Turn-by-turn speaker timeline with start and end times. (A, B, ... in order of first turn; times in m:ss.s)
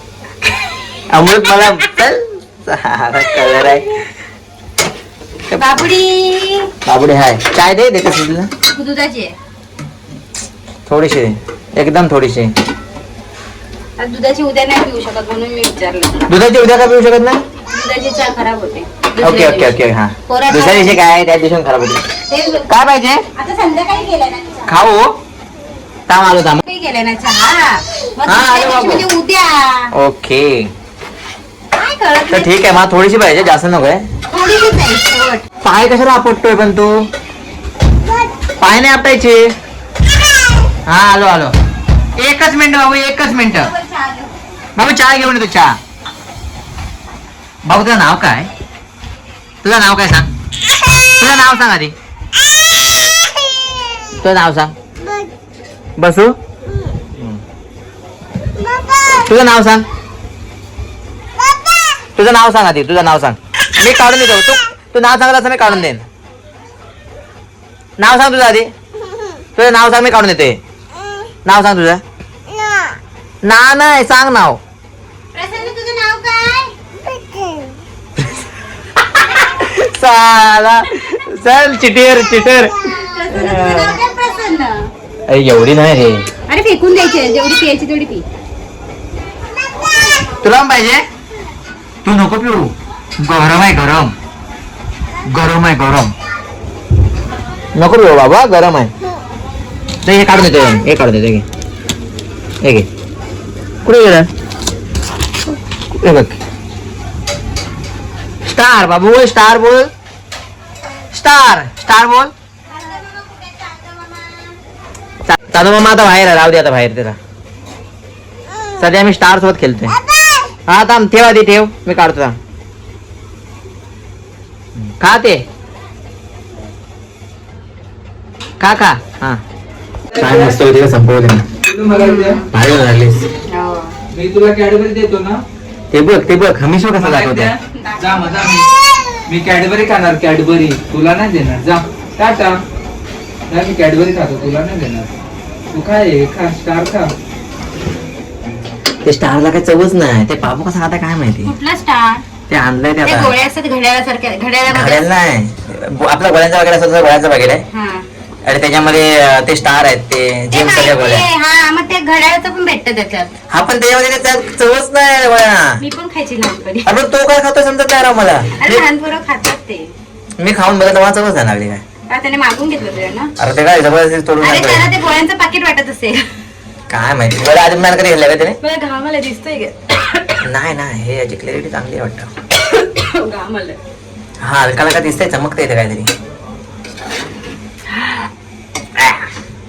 0:01.1-0:04.1 A
0:03.3-0:03.7 B
0:05.5-0:05.9 A
0:05.5-0:06.7 B
0:06.9-0:08.5 A
0:08.7-0:09.4 B
0:10.9-0:12.6 A
0:14.0-0:16.3 B
0:16.3-0:17.4 A
0:17.7-0:19.8 B
0:19.2-0:22.0 A
0:20.3-0:21.0 B
0:22.3-0:22.7 B
0:22.7-0:23.2 A
0:23.4-0:24.8 B
0:24.7-0:25.2 A
0:26.1-0:26.6 A
0:26.6-0:29.9 B
0:28.3-0:29.0 A
0:29.9-0:30.7 A
0:31.7-0:32.5 B
0:32.3-0:34.0 A
0:34.3-0:35.5 B
0:35.6-0:37.1 A
0:38.6-0:39.5 A
0:40.9-0:41.5 A
0:42.2-0:43.7 A
0:43.5-0:44.4 B
0:44.8-0:45.8 A
0:47.6-0:48.5 A
0:49.6-0:50.3 A
0:51.2-0:51.9 A
0:54.2-0:54.8 A
0:56.0-0:56.4 A
0:59.1-0:59.9 A
1:02.2-1:06.0 A
1:08.0-1:08.7 A
1:09.6-1:10.6 A
1:11.4-1:12.0 A
1:13.4-1:14.6 A
1:15.3-1:16.7 B
1:19.3-1:24.0 A
1:22.9-1:24.9 B
1:25.3-1:26.3 A
1:26.5-1:28.2 B
1:30.4-1:31.0 A
1:32.0-1:34.1 A
1:35.3-1:36.1 A
1:37.8-1:38.9 A
1:40.0-1:41.4 A
1:42.6-1:42.9 A
1:43.8-1:44.3 A
1:46.0-1:46.4 A
1:48.5-1:49.9 A
1:51.1-1:52.3 A
1:55.3-1:57.2 A
1:58.8-2:00.0 A
2:00.7-2:02.4 A
2:04.8-2:05.4 A
2:08.6-2:09.4 A
2:10.1-2:10.6 C
2:10.1-2:11.5 A
2:11.6-2:12.4 C
2:11.9-2:12.5 B
2:12.5-2:13.3 A
2:13.5-2:14.0 B
2:14.1-2:15.4 C
2:15.9-2:17.6 A
2:17.0-2:18.7 C
2:17.7-2:18.5 B
2:19.3-2:22.6 C
2:23.5-2:25.1 C
2:25.7-2:27.1 C
2:29.0-2:31.5 A
2:31.5-2:32.2 B
2:32.5-2:33.3 A
2:33.0-2:35.1 B
2:34.7-2:37.6 A
2:37.7-2:38.1 B
2:38.4-2:41.3 A
2:40.5-2:43.3 B
2:43.5-2:45.8 A
2:45.8-2:46.9 B
2:46.8-2:48.8 A
2:48.6-2:49.9 B
2:50.4-2:51.8 A
2:52.1-2:53.3 B
2:53.4-2:54.9 A
2:54.4-2:56.2 B
2:56.9-2:58.6 A
2:58.6-3:00.4 B
3:00.4-3:02.3 A
3:02.6-3:03.8 B
3:04.4-3:06.1 A
3:07.9-3:08.3 B